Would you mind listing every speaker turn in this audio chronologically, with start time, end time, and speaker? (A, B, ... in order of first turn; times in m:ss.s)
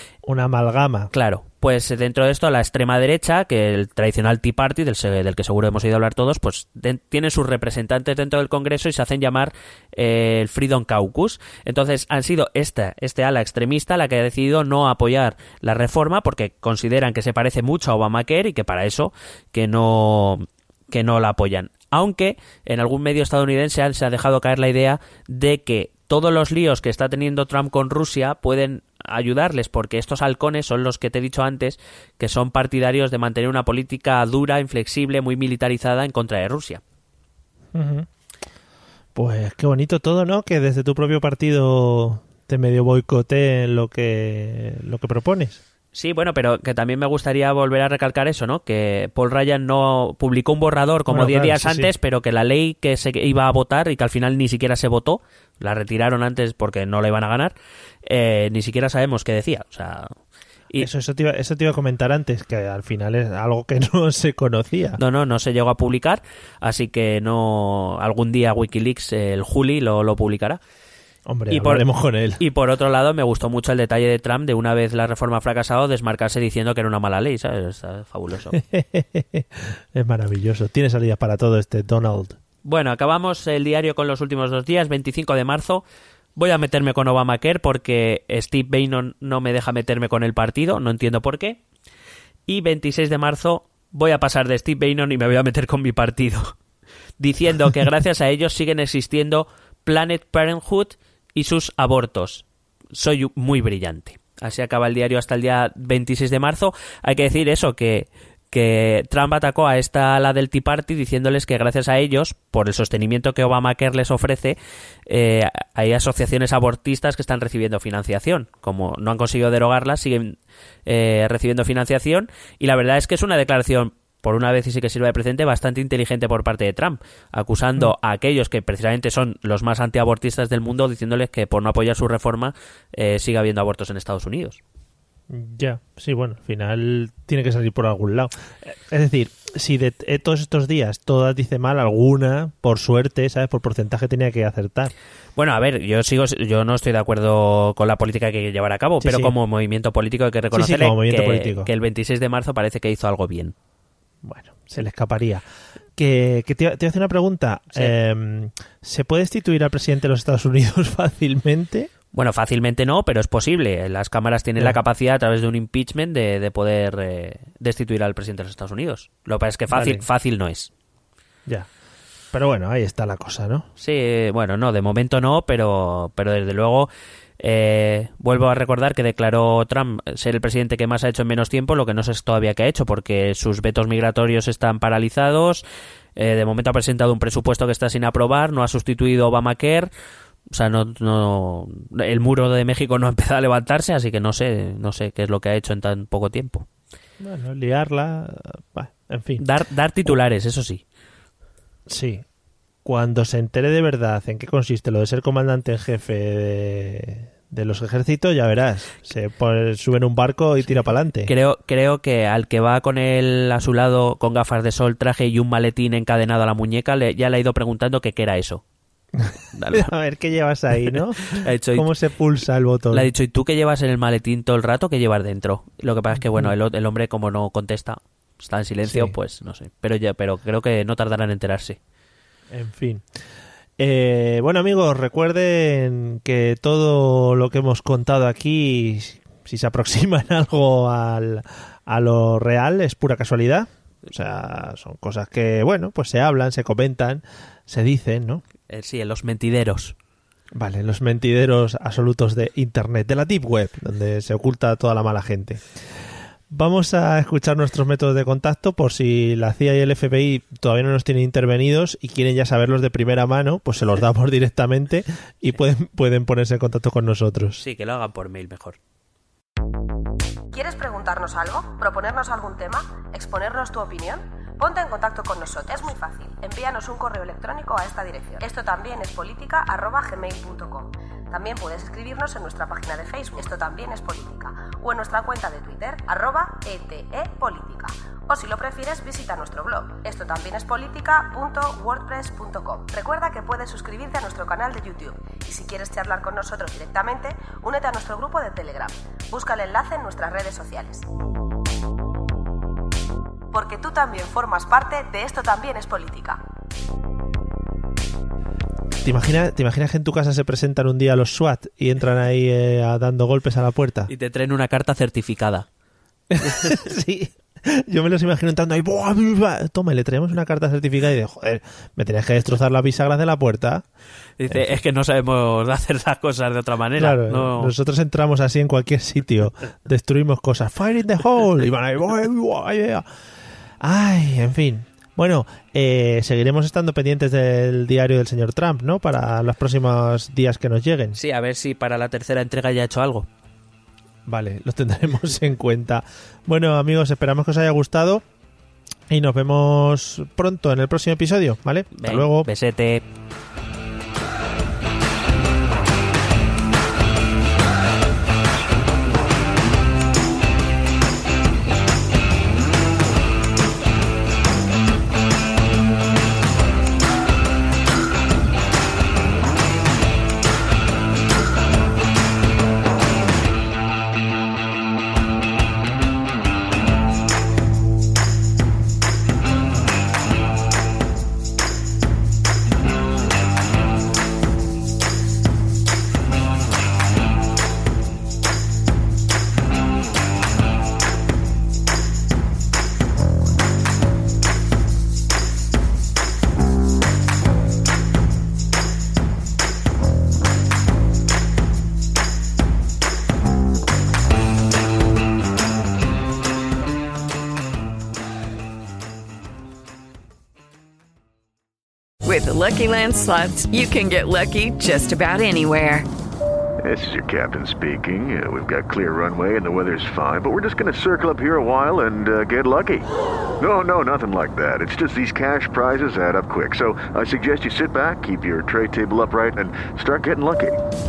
0:00.2-0:01.1 A
0:01.1-0:36.8 B
0:37.7-0:38.1 A
0:39.2-0:45.6 A
0:45.9-1:00.2 B
0:51.1-0:51.9 A
1:00.8-1:05.0 A
1:05.0-1:10.6 B
1:11.3-1:12.4 A
1:11.5-1:11.8 B
1:12.4-1:18.6 B
1:18.5-1:22.4 A
1:22.6-1:25.8 B
1:26.4-1:31.6 B
1:32.5-1:36.6 B
1:37.2-2:14.6 B
2:15.3-2:24.9 A
2:25.4-2:33.6 B
2:29.0-2:29.3 A
2:30.5-2:31.7 A
2:34.2-2:35.4 A
2:36.0-2:41.9 A
2:42.1-2:50.7 B
2:49.7-2:50.0 A
2:52.3-2:53.7 A
2:53.8-3:05.6 B
3:06.2-3:09.9 B
3:10.5-3:16.7 B
3:17.2-3:19.4 A
3:19.4-3:20.8 B
3:21.9-3:22.2 A
3:22.8-3:31.3 A
3:31.3-3:38.6 B
3:39.2-3:43.1 A
3:39.5-3:39.9 B
3:40.9-3:41.9 B
3:42.9-3:51.8 B
3:48.8-3:49.2 A
3:52.5-3:53.0 A
3:53.8-4:08.4 A
4:08.7-4:10.0 B
4:10.6-4:15.7 A
4:16.5-4:27.6 A
4:27.6-4:28.8 B
4:30.5-5:01.1 C
5:03.5-5:06.4 C
5:09.0-5:14.1 A
5:14.1-5:15.7 B
5:16.3-5:23.8 A
5:24.4-5:27.7 B
5:24.5-5:24.7 A
5:27.0-5:33.1 A
5:33.8-5:41.2 A
5:41.2-5:43.3 B
5:44.3-5:48.2 A
5:49.1-5:52.5 A
5:52.0-5:53.0 B
6:52.2-6:56.1 D
6:56.8-7:03.1 E
7:03.6-7:10.8 E